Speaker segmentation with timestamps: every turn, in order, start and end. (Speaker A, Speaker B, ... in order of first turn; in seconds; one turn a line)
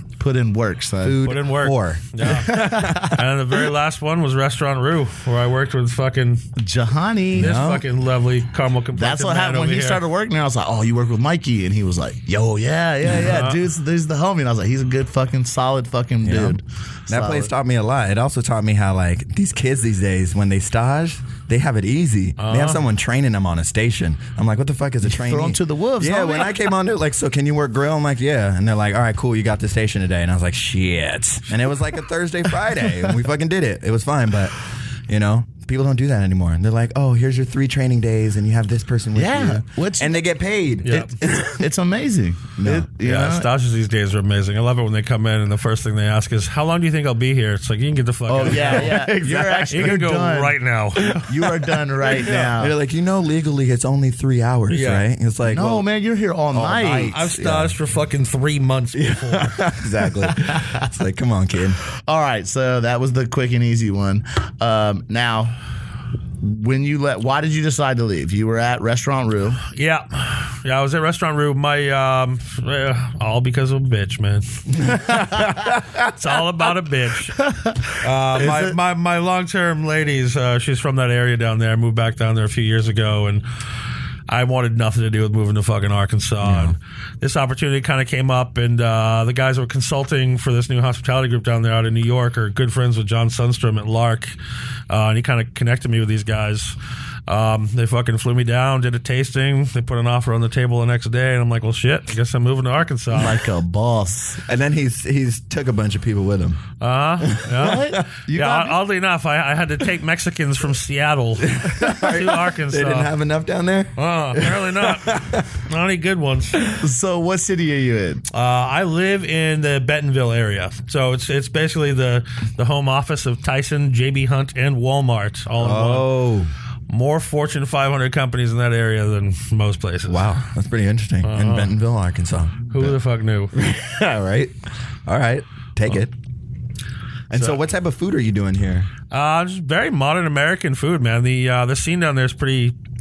Speaker A: 0.2-1.3
Speaker B: 1.0-3.1
Speaker C: 1.2-6.4
Speaker A: 2.5-3.1
Speaker A: 6.6-7.5
Speaker B: 7.3-7.8
Speaker C: 7.3-10.0
Speaker A: 8.9-17.5
Speaker C: 13.1-13.6
Speaker B: 16.2-34.5
Speaker C: 22.4-22.8
Speaker A: 25.0-26.7
Speaker B: 35.1-41.6
Speaker A: 39.1-40.3
Speaker C: 40.8-41.1
Speaker A: 41.2-43.5
Speaker B: 42.6-42.9
Speaker C: 43.0-49.1
Speaker A: 48.3-52.7
Speaker B: 48.4-50.0
Speaker C: 49.7-51.2
Speaker B: 51.0-51.5
Speaker B: 52.0-55.9
Speaker C: 54.7-55.0
Speaker A: 55.4-57.2
Speaker B: 56.5-57.7
Speaker C: 57.0-59.6
Speaker B: 58.9-61.8
Speaker A: 60.3-60.8
Speaker A: 62.0-65.5
Speaker A: 66.4-69.6
Speaker C: 69.7-77.4
Speaker A: 75.1-75.4
Speaker A: 77.4-78.7
Speaker C: 77.9-83.4
Speaker B: 78.0-78.7
Speaker C: 84.3-94.3
Speaker B: 86.4-86.8
Speaker C: 94.9-103.4
Speaker A: 103.1-104.4
Speaker B: 104.5-106.6
Speaker C: 106.8-113.1
Speaker B: 107.2-108.0
Speaker A: 107.6-108.8
Speaker B: 111.4-115.5
Speaker C: 114.0-116.6
Speaker A: 116.8-118.2
Speaker C: 118.3-126.1
Speaker B: 125.6-126.5
Speaker C: 126.9-130.4
Speaker B: 130.1-133.0
Speaker C: 131.2-131.7
Speaker C: 132.7-133.5
Speaker B: 133.5-134.5
Speaker B: 135.1-136.1
Speaker B: 137.3-138.9
Speaker C: 139.1-142.7